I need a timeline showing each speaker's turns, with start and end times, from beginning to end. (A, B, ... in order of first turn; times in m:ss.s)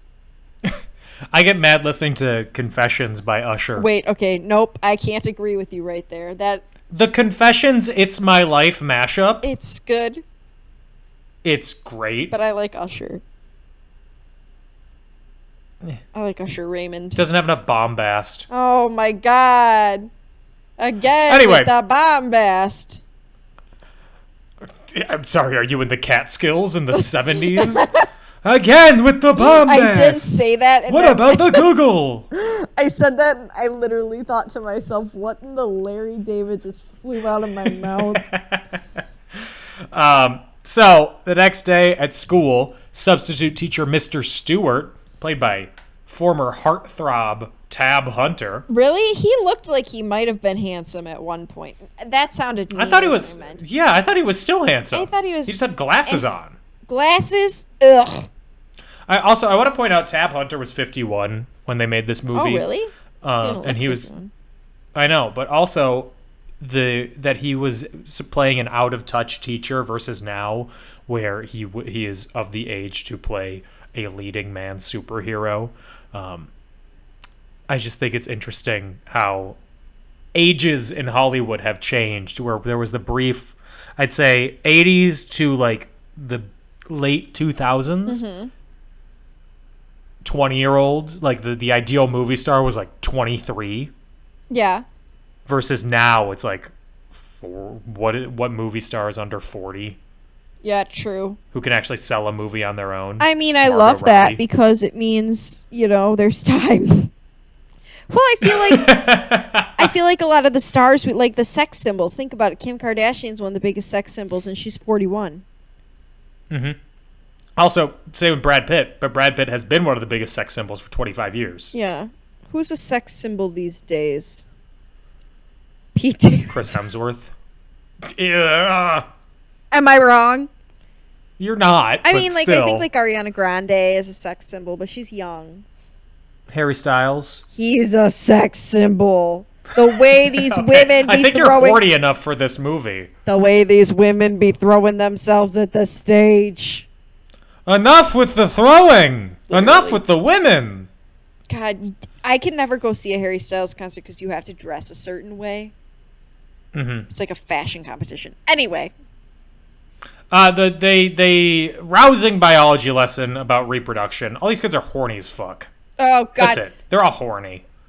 0:00.6-0:03.9 A
0:03.8-0:06.6 B
0:06.9-0:09.4 A
0:09.4-0:10.2 B
0:11.4-0:12.3 A
0:12.3-0:13.2 B
0:16.1-0:17.2 B
0:17.2-0:18.5 A
0:18.5-0:20.1 B
0:20.8-0:23.0 B
0:21.3-0:21.7 A
0:24.6-0:27.9 A
0:26.9-0:28.1 B
0:28.4-0:32.3 A
0:29.4-0:31.7 B
0:32.3-0:38.3 B
0:37.6-0:38.8 A
0:39.3-0:48.6 A
0:48.7-0:53.6 B
0:52.7-0:56.6 A
0:54.9-0:56.3 B
0:56.9-0:58.3 B
0:59.1-1:02.7 A
1:02.3-1:04.3 B
1:03.2-1:04.1 A
1:04.9-1:16.5 A
1:17.7-1:19.6 A
1:20.3-1:28.2 A
1:28.1-1:28.5 B
1:30.2-1:33.9 A
1:34.5-1:34.8 B
1:35.4-1:40.0 A
1:40.6-1:41.4 B
1:41.5-1:44.4 A
1:43.2-1:47.1 B
1:48.1-1:48.9 B
1:48.4-1:49.9 A
1:49.8-1:55.4 B
1:56.5-1:56.8 A
1:57.6-2:01.7 A
2:01.7-2:04.5 B
2:05.9-2:06.8 B
2:06.5-2:07.3 A
2:08.0-2:09.1 A
2:09.7-2:10.5 B
2:11.4-2:12.9 A
2:12.0-2:15.6 B
2:16.5-2:17.4 A
2:17.5-2:21.8 B
2:19.8-2:23.1 A
2:23.2-2:26.9 B
2:27.6-2:30.9 A
2:29.5-2:30.0 B
2:31.5-2:35.7 B
2:36.7-2:37.1 A
2:37.1-2:38.9 B
2:40.3-2:45.7 A
2:46.0-2:46.6 B
2:46.4-2:47.6 A